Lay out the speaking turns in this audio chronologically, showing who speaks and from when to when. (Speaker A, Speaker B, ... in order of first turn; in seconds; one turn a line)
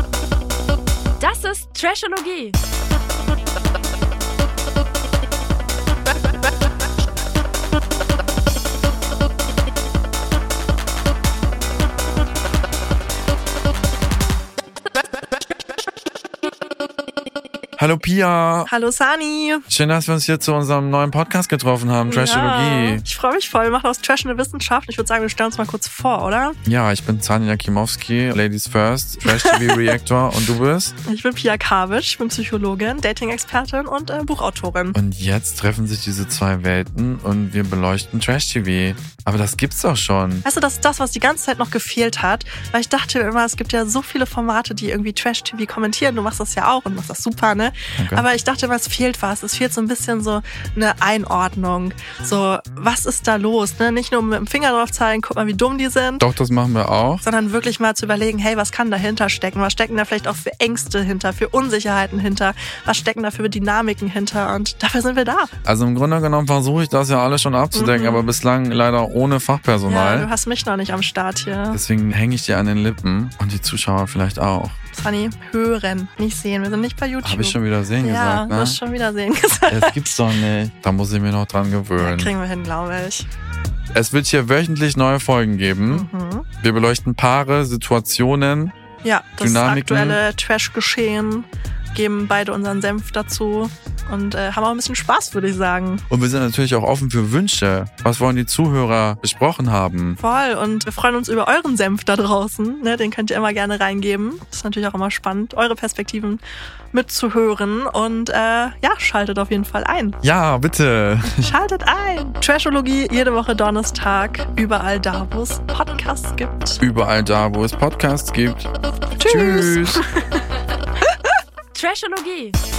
Speaker A: 1.2-2.5
Speaker B: 17.8-18.7
Speaker C: 18.7-19.7
Speaker B: 19.7-23.0
Speaker C: 22.1-26.6
Speaker B: 26.6-30.9
Speaker C: 29.2-29.5
Speaker C: 31.1-35.0
Speaker B: 34.9-40.5
Speaker C: 40.5-56.2
Speaker B: 48.0-48.3
Speaker B: 56.2-57.2
Speaker C: 57.2-65.5
Speaker B: 65.6-70.3
Speaker C: 67.7-68.3
Speaker C: 69.9-71.8
Speaker B: 71.7-74.8
Speaker C: 74.9-80.2
Speaker B: 77.2-78.8
Speaker B: 79.7-82.3
Speaker C: 82.0-83.3
Speaker B: 83.9-86.1
Speaker C: 85.9-86.5
Speaker B: 86.6-88.8
Speaker C: 89.0-96.0
Speaker B: 89.4-90.2
Speaker B: 96.1-100.2
Speaker C: 100.2-110.2
Speaker B: 110.2-111.5
Speaker C: 111.2-116.8
Speaker B: 116.8-120.0
Speaker C: 119.2-120.4
Speaker A: 121.7-122.6